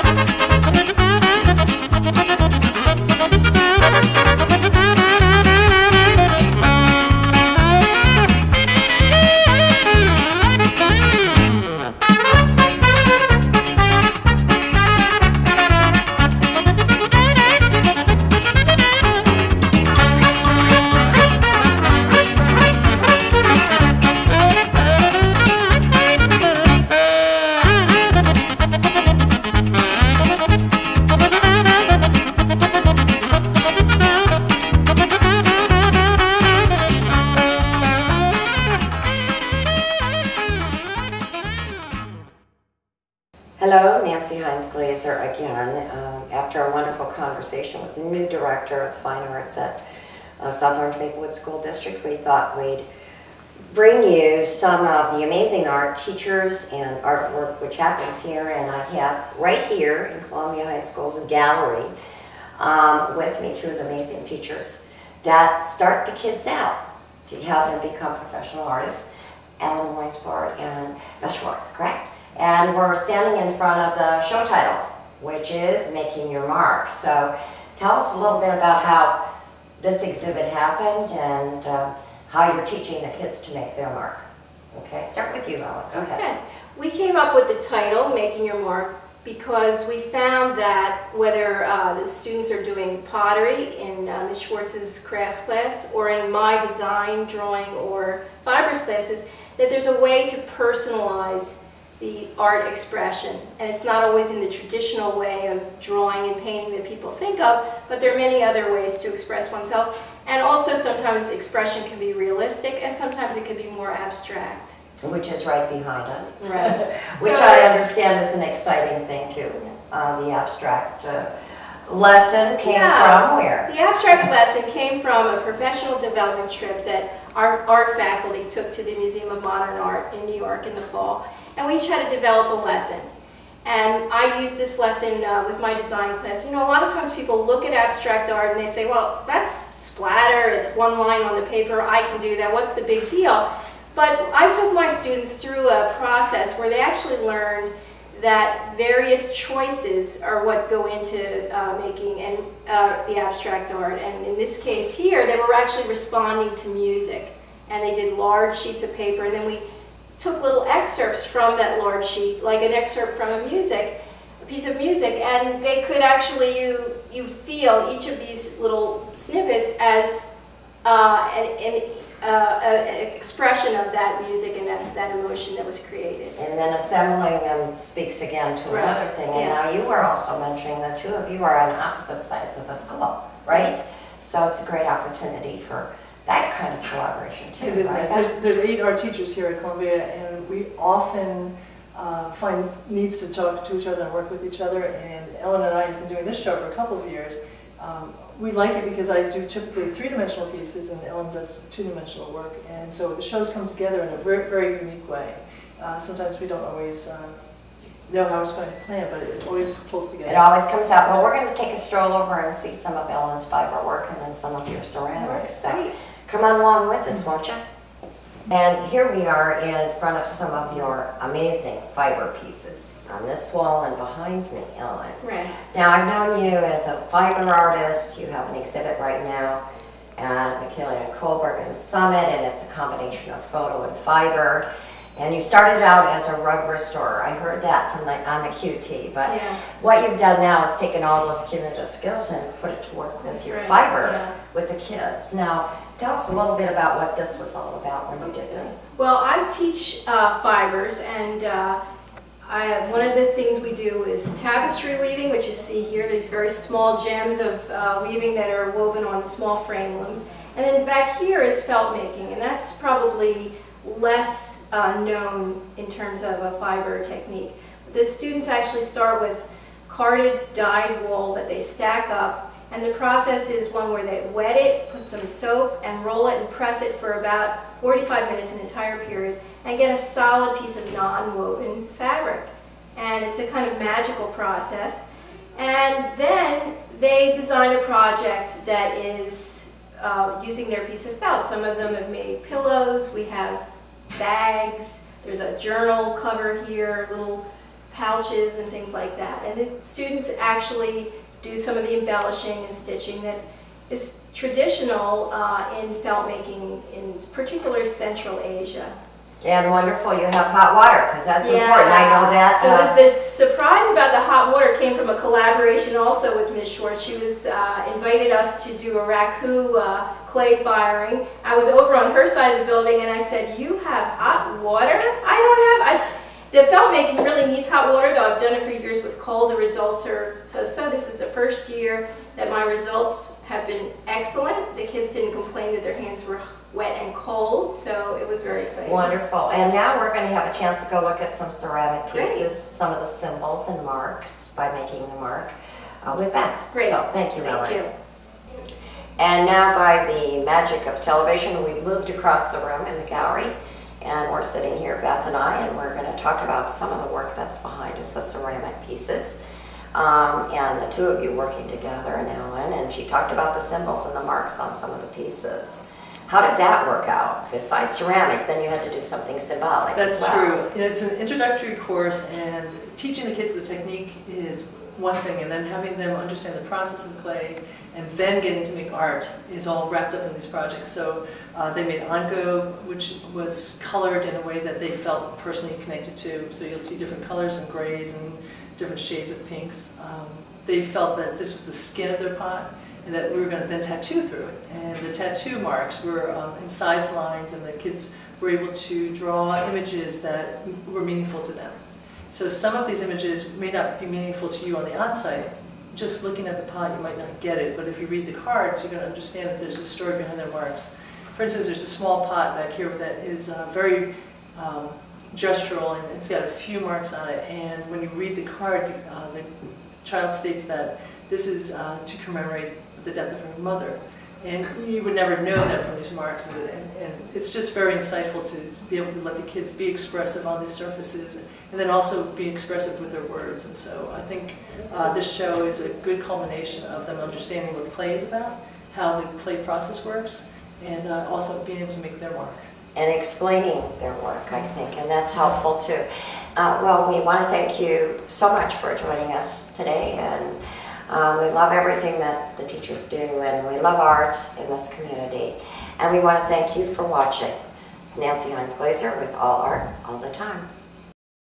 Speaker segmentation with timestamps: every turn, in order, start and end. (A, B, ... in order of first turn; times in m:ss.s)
0:43.6-0:49.8 A
0:50.4-0:52.8 A
0:53.7-1:01.9 A
1:02.6-1:09.1 A
1:09.6-1:19.2 A
1:19.8-1:26.2 A
1:25.9-1:54.8 B
1:55.0-2:01.3 A
1:56.4-1:57.7 B
2:01.9-2:03.7 A
2:02.6-2:13.1 B
2:13.6-2:39.6 B
2:40.2-2:50.3 B
2:50.8-2:56.4 B
2:56.4-3:08.3 A
2:58.7-2:59.6 B
3:07.6-3:27.4 C
3:28.1-3:30.5 C
3:30.2-3:37.6 A
3:35.1-3:35.9 B
3:38.5-3:49.6 A
3:45.2-3:45.6 B
3:50.2-3:54.6 A
3:55.2-4:08.8 A
3:59.2-3:59.6 B
4:03.2-4:04.4 B
4:08.2-4:11.8 B
4:12.4-4:45.0 B
4:45.5-5:08.9 B
5:09.4-5:12.9 A
5:11.4-5:39.1 B
5:38.8-5:47.8 A
5:42.1-5:42.5 B
5:46.7-5:47.9 B
5:49.2-5:59.4 A
5:59.9-6:10.6 A
6:09.9-6:41.8 C
6:42.3-7:22.7 C
7:22.9-7:40.7 A